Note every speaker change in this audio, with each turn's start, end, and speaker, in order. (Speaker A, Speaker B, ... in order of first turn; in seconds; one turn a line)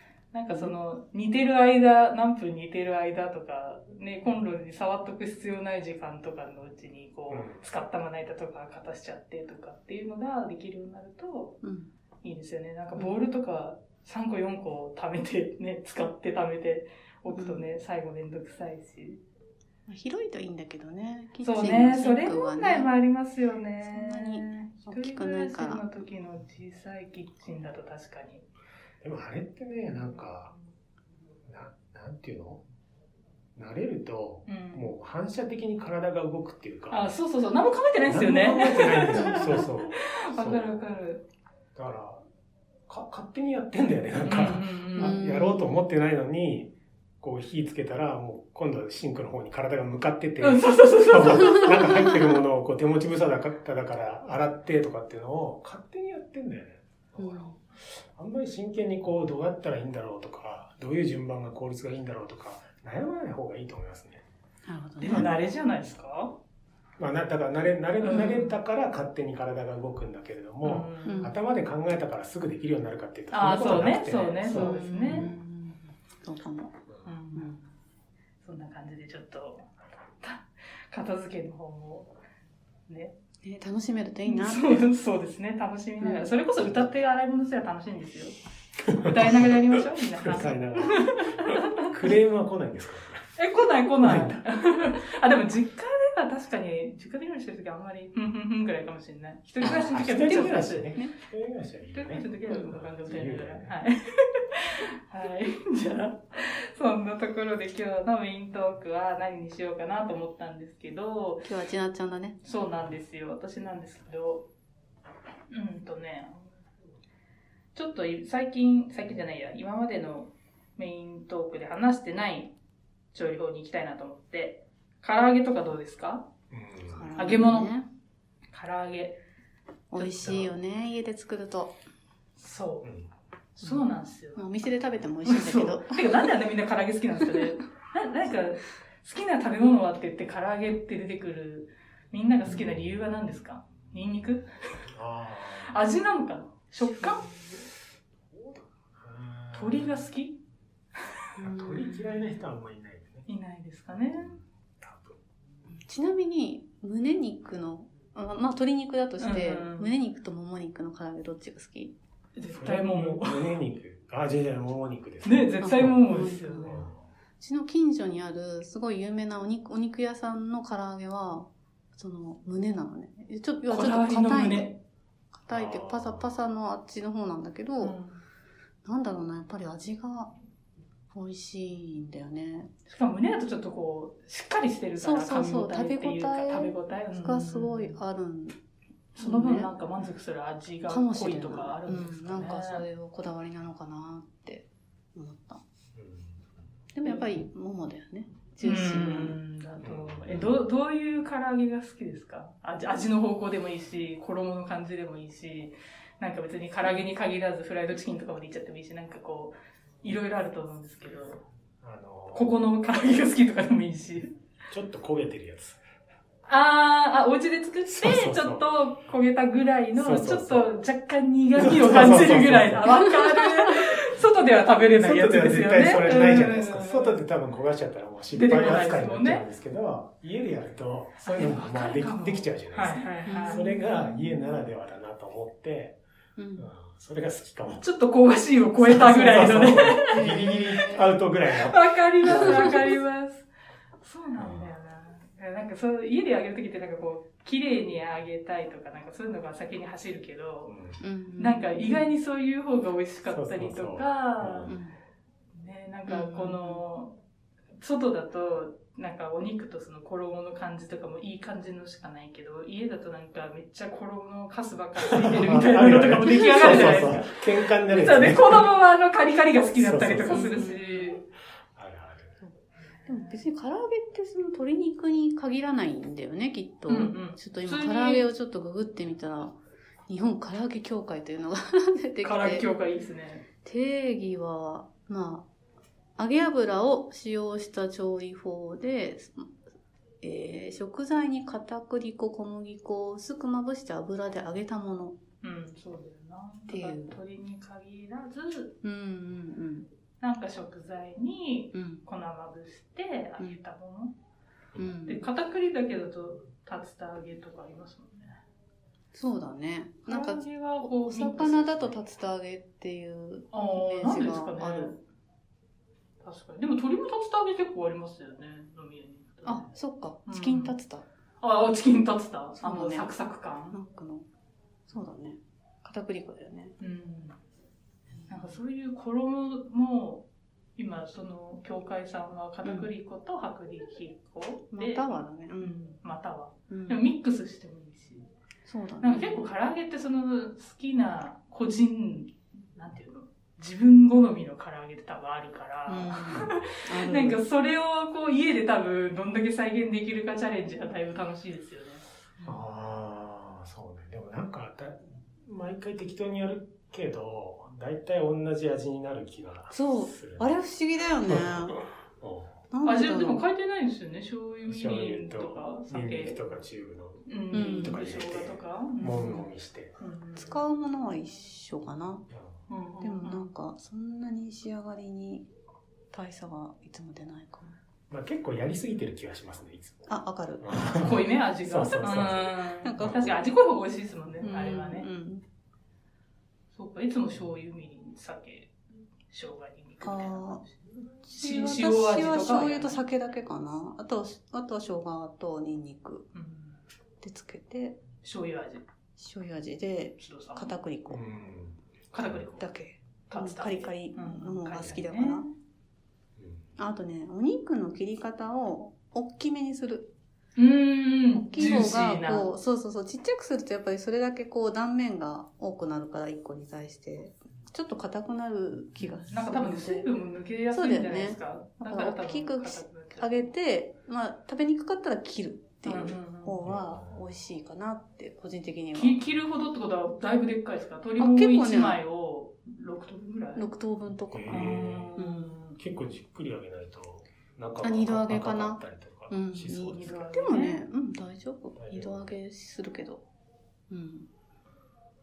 Speaker A: 0.3-11.6
Speaker B: 7.3-7.6
Speaker C: 11.6-11.9
Speaker A: 12.2-19.2
Speaker C: 17.3-17.7
Speaker C: 19.9-22.9
Speaker A: 21.4-28.4
Speaker C: 23.8-25.9
Speaker B: 29.0-30.6
Speaker B: 31.5-32.6
Speaker B: 33.6-37.1
Speaker A: 34.5-34.9
Speaker A: 36.9-41.2
Speaker B: 38.1-40.8
Speaker B: 41.8-42.2
Speaker B: 42.9-64.2
Speaker A: 44.2-45.2
Speaker C: 45.0-45.9
Speaker A: 50.4-52.1
Speaker C: 51.6-52.2
Speaker C: 57.2-57.6
Speaker C: 64.7-65.3
Speaker A: 65.0-66.4
Speaker B: 67.0-75.3
Speaker A: 68.0-68.6
Speaker C: 68.1-68.4
Speaker A: 70.6-71.3
Speaker C: 71.0-71.3
Speaker A: 73.3-75.3
Speaker C: 74.5-76.8
Speaker A: 77.0-77.6
Speaker C: 77.3-77.7
Speaker A: 78.4-79.7
Speaker A: 80.2-82.1
Speaker A: 82.9-83.2
Speaker C: 83.4-84.8
Speaker A: 84.3-88.4
Speaker C: 86.0-86.3
Speaker A: 88.9-91.9
Speaker B: 88.9-93.3
Speaker A: 93.4-100.9
Speaker B: 94.0-94.4
Speaker C: 99.6-101.1
Speaker B: 99.6-103.8
Speaker A: 101.9-111.5
Speaker C: 111.4-112.4
Speaker A: 112.4-114.5
Speaker A: 115.5-116.5
Speaker A: 117.8-122.5
Speaker A: 123.1-126.3
Speaker B: 126.5-127.1
Speaker C: 126.9-127.9
Speaker A: 127.2-127.7
Speaker A: 128.5-129.2
Speaker C: 129.9-131.8
Speaker B: 130.2-130.5
Speaker A: 132.4-132.9
Speaker B: 132.8-133.1
Speaker A: 133.6-134.4
Speaker C: 134.4-136.2
Speaker A: 135.2-144.8
Speaker B: 144.9-145.8
Speaker A: 145.6-147.3
Speaker C: 147.0-147.3
Speaker B: 148.3-150.0
Speaker A: 149.5-150.4
Speaker B: 151.4-153.3
Speaker C: 151.4-152.2
Speaker A: 153.3-154.4
Speaker B: 154.2-155.2
Speaker C: 155.7-161.9
Speaker A: 159.2-159.9
Speaker A: 162.4-163.6
Speaker B: 162.5-166.1
Speaker A: 165.2-166.9
Speaker C: 165.6-166.9
Speaker B: 166.6-167.0
Speaker C: 167.4-174.7
Speaker A: 173.7-174.8
Speaker C: 175.3-178.0
Speaker B: 175.5-176.3
Speaker A: 177.8-178.2
Speaker C: 178.8-180.3
Speaker C: 181.1-182.7
Speaker A: 182.9-188.0
Speaker C: 185.0-188.6
Speaker A: 189.2-192.8
Speaker C: 189.2-189.7
Speaker C: 190.9-195.6
Speaker B: 196.0-196.4
Speaker C: 196.9-199.4
Speaker A: 197.1-197.3
Speaker A: 198.6-211.4
Speaker B: 199.8-200.5
Speaker B: 211.8-212.6
Speaker A: 212.3-214.3
Speaker B: 214.7-215.8
Speaker A: 216.5-227.2
Speaker B: 217.9-218.7
Speaker B: 219.9-220.7
Speaker B: 221.6-223.0
Speaker C: 223.0-223.5
Speaker B: 225.0-236.0
Speaker A: 228.3-229.4
Speaker A: 231.2-233.7
Speaker C: 233.3-234.4
Speaker C: 236.4-236.7
Speaker B: 236.6-237.9
Speaker A: 237.8-240.3
Speaker B: 238.8-242.8
Speaker C: 240.1-241.1
Speaker A: 241.6-243.5
Speaker C: 242.3-242.8
Speaker A: 244.0-250.8
Speaker B: 244.4-244.7
Speaker B: 250.7-251.0
Speaker C: 251.0-252.1
Speaker A: 251.4-254.7
Speaker B: 253.3-254.7
Speaker C: 254.7-255.0
Speaker A: 255.5-257.2
Speaker C: 256.1-256.8
Speaker A: 257.8-271.2
Speaker B: 265.1-268.7
Speaker C: 266.4-267.1
Speaker B: 269.8-270.7
Speaker C: 270.3-271.2
Speaker B: 271.8-272.4
Speaker A: 273.0-273.4
Speaker C: 273.1-282.7
Speaker A: 276.9-278.3
Speaker A: 282.2-283.4
Speaker C: 283.6-285.5
Speaker C: 286.2-289.5
Speaker C: 290.2-295.2
Speaker A: 295.4-298.8
Speaker C: 296.7-297.2
Speaker C: 298.8-299.9
Speaker A: 300.2-304.1
Speaker C: 301.7-302.0
Speaker C: 304.8-305.2
Speaker A: 305.1-308.4
Speaker C: 309.1-314.9
Speaker A: 310.1-311.9
Speaker A: 313.5-315.0
Speaker A: 316.2-319.7
Speaker C: 319.4-321.1
Speaker A: 320.3-320.8
Speaker A: 321.4-323.8
Speaker C: 322.6-323.1
Speaker C: 323.7-324.3
Speaker C: 324.9-326.8
Speaker A: 326.8-327.4
Speaker C: 328.2-328.5
Speaker A: 328.3-330.3
Speaker A: 330.8-338.3
Speaker C: 332.6-332.9
Speaker C: 334.7-335.8
Speaker C: 336.7-337.1
Speaker C: 338.7-339.5
Speaker A: 339.0-352.0
Speaker C: 345.9-347.4
Speaker B: 352.4-360.6
Speaker C: 359.7-361.8
Speaker B: 361.2-362.6
Speaker C: 362.7-363.4
Speaker A: 362.8-366.5
Speaker B: 364.7-369.9
Speaker A: 367.3-369.5
Speaker C: 367.5-368.0
Speaker A: 370.0-370.6
Speaker C: 370.4-372.2
Speaker B: 372.3-372.6
Speaker A: 372.7-373.5
Speaker C: 373.0-375.5
Speaker C: 376.1-377.8
Speaker B: 378.1-380.1
Speaker C: 380.1-380.9
Speaker B: 380.6-383.4
Speaker A: 380.9-385.1
Speaker C: 382.8-383.3
Speaker C: 384.4-385.4
Speaker A: 386.7-388.7
Speaker A: 389.3-393.0
Speaker C: 390.0-390.6
Speaker C: 391.2-396.3
Speaker A: 396.3-396.8
Speaker C: 397.2-398.0
Speaker A: 398.2-398.8
Speaker C: 399.2-401.2
Speaker A: 400.2-400.7
Speaker B: 401.1-401.8
Speaker A: 402.1-402.7
Speaker C: 402.6-405.5
Speaker A: 403.3-405.5
Speaker B: 406.4-406.7
Speaker C: 406.8-410.1
Speaker A: 410.6-412.5
Speaker C: 411.3-420.1
Speaker A: 419.3-423.5
Speaker C: 420.7-429.2
Speaker A: 425.8-426.6
Speaker B: 426.6-427.2
Speaker A: 428.9-433.7
Speaker C: 431.2-432.0
Speaker C: 433.6-435.5
Speaker B: 434.3-435.1
Speaker A: 434.5-435.8
Speaker B: 435.8-440.2
Speaker C: 437.8-443.2
Speaker A: 439.9-440.8
Speaker B: 441.8-442.3
Speaker C: 443.9-444.3